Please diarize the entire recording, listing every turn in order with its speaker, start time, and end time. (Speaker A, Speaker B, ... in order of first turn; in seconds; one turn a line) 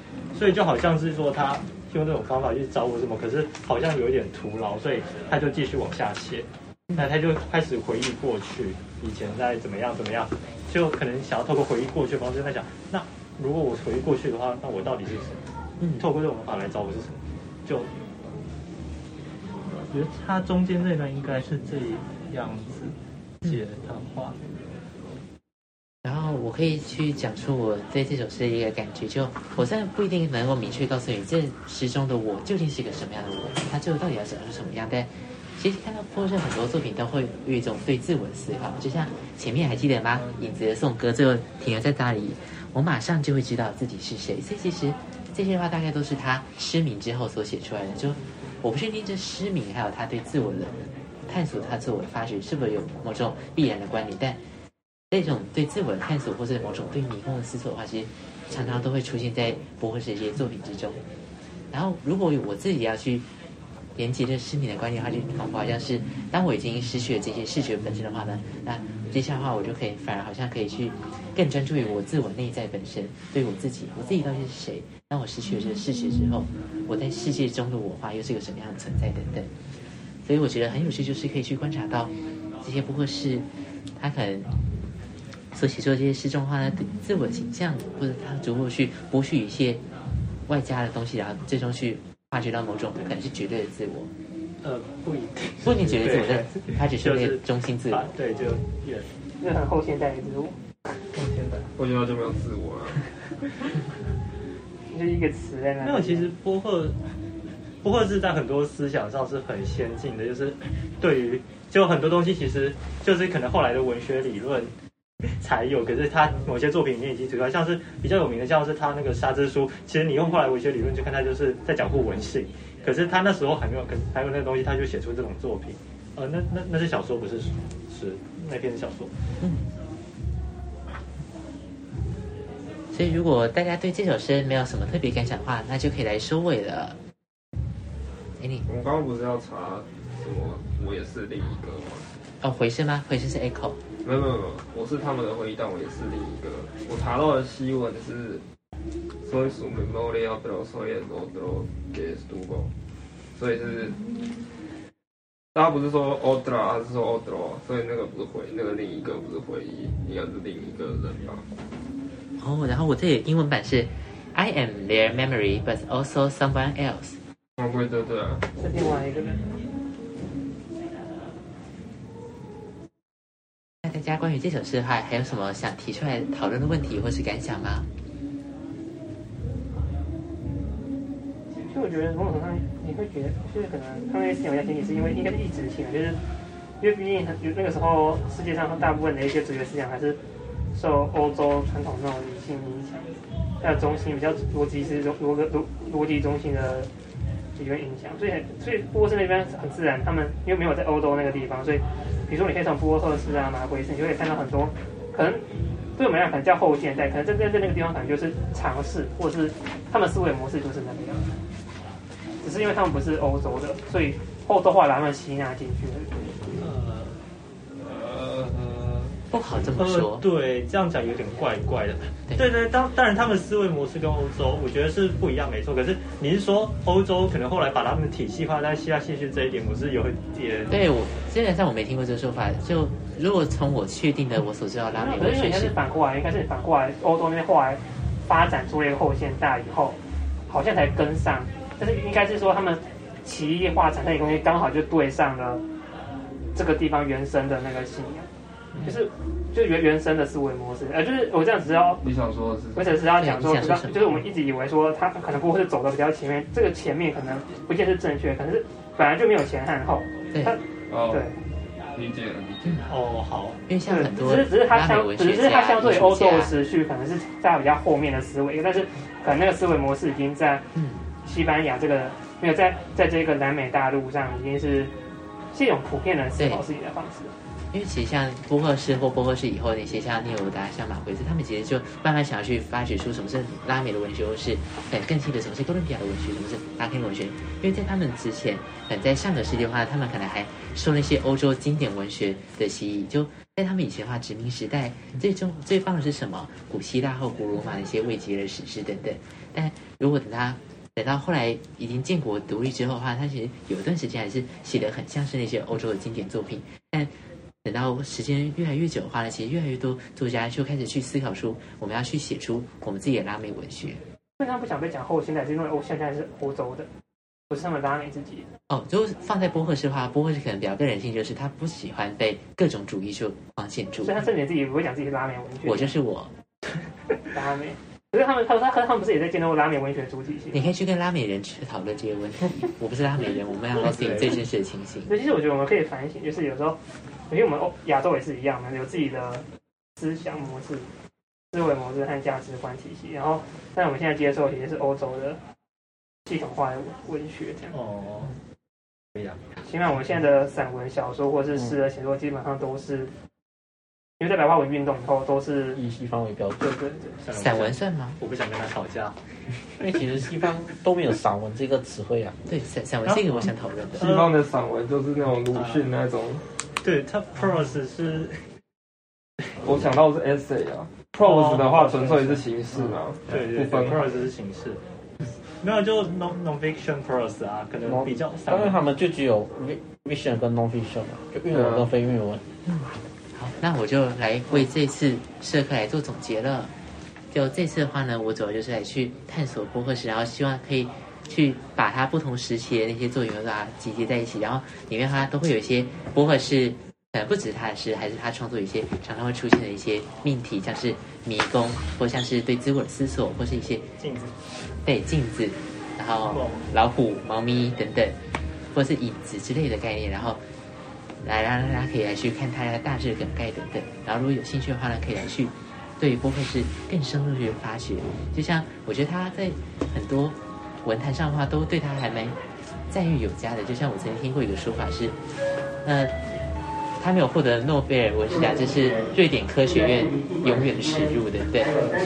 Speaker A: 0.3-15.5
Speaker B: 15.8-16.1
Speaker A: 16.0-17.9
Speaker A: 19.7-24.4
Speaker B: 26.0-54.4
Speaker C: 40.1-40.5
Speaker B: 55.1-61.0
Speaker B: 61.7-63.3
Speaker B: 64.0-79.5
Speaker B: 80.2-84.5
Speaker B: 85.5-89.8
Speaker B: 90.5-94.1
Speaker A: 94.6-99.1
Speaker B: 95.6-98.1
Speaker D: 99.4-100.6
Speaker A: 101.1-101.7
Speaker C: 101.8-103.1
Speaker D: 104.9-106.3
Speaker A: 105.8-107.0
Speaker A: 107.8-114.7
Speaker A: 115.4-129.1
Speaker B: 129.4-129.7
Speaker B: 132.9-137.0
Speaker B: 138.4-138.7
Speaker C: 138.7-142.1
Speaker B: 142.4-143.8
Speaker C: 144.0-148.4
Speaker C: 149.2-152.7
Speaker C: 153.3-154.0
Speaker C: 155.5-161.4
Speaker B: 162.4-167.2
Speaker C: 167.6-168.5
Speaker D: 168.6-169.5
Speaker B: 173.8-177.9
Speaker D: 181.7-186.2
Speaker D: 186.8-190.2
Speaker D: 190.7-193.1
Speaker D: 193.6-196.9
Speaker D: 197.6-205.4
Speaker D: 206.0-211.3
Speaker D: 212.4-216.2
Speaker A: 216.6-217.2
Speaker C: 217.8-219.2
Speaker B: 219.3-220.3
Speaker A: 219.4-230.7
Speaker B: 230.7-235.8
Speaker D: 235.0-240.0
Speaker D: 240.5-245.6
Speaker D: 246.6-248.3
Speaker D: 248.8-252.0
Speaker C: 252.0-253.0
Speaker D: 252.8-261.4
Speaker B: 253.0-254.3
Speaker C: 260.9-261.3
Speaker C: 261.9-262.9
Speaker A: 262.9-263.6
Speaker B: 263.7-266.5
Speaker D: 263.9-270.7
Speaker B: 270.8-271.0
Speaker D: 271.2-274.9
Speaker D: 275.5-277.3
Speaker B: 276.4-276.6
Speaker B: 277.7-307.1
Speaker B: 307.6-314.0
Speaker D: 314.4-316.9
Speaker D: 317.5-318.5
Speaker B: 318.7-324.3
Speaker D: 324.0-325.9
Speaker B: 325.6-326.3
Speaker D: 327.3-330.6
Speaker B: 330.5-335.1
Speaker D: 335.1-336.8
Speaker D: 337.3-339.4
Speaker D: 340.0-340.9
Speaker D: 341.5-345.4
Speaker D: 346.3-347.8
Speaker A: 347.7-348.4
Speaker A: 349.1-349.4
Speaker D: 349.6-353.1
Speaker D: 354.2-355.8
Speaker E: 355.7-356.7
Speaker D: 356.6-357.2
Speaker A: 357.2-359.2
Speaker B: 357.3-358.2
Speaker E: 359.8-362.4
Speaker B: 362.5-364.1
Speaker A: 363.1-364.4
Speaker C: 364.0-366.4
Speaker A: 365.5-365.9
Speaker A: 366.8-368.4
Speaker C: 369.6-374.3
Speaker A: 371.2-372.4
Speaker A: 373.3-374.8
Speaker A: 375.6-378.8
Speaker E: 377.9-382.4
Speaker C: 381.5-381.9
Speaker B: 382.7-386.7
Speaker B: 387.3-403.9
Speaker A: 404.0-404.3
Speaker B: 404.8-408.2
Speaker A: 406.3-406.6
Speaker B: 408.7-410.4
Speaker B: 411.2-422.4
Speaker B: 422.9-425.2
Speaker B: 425.8-426.2
Speaker B: 427.0-431.9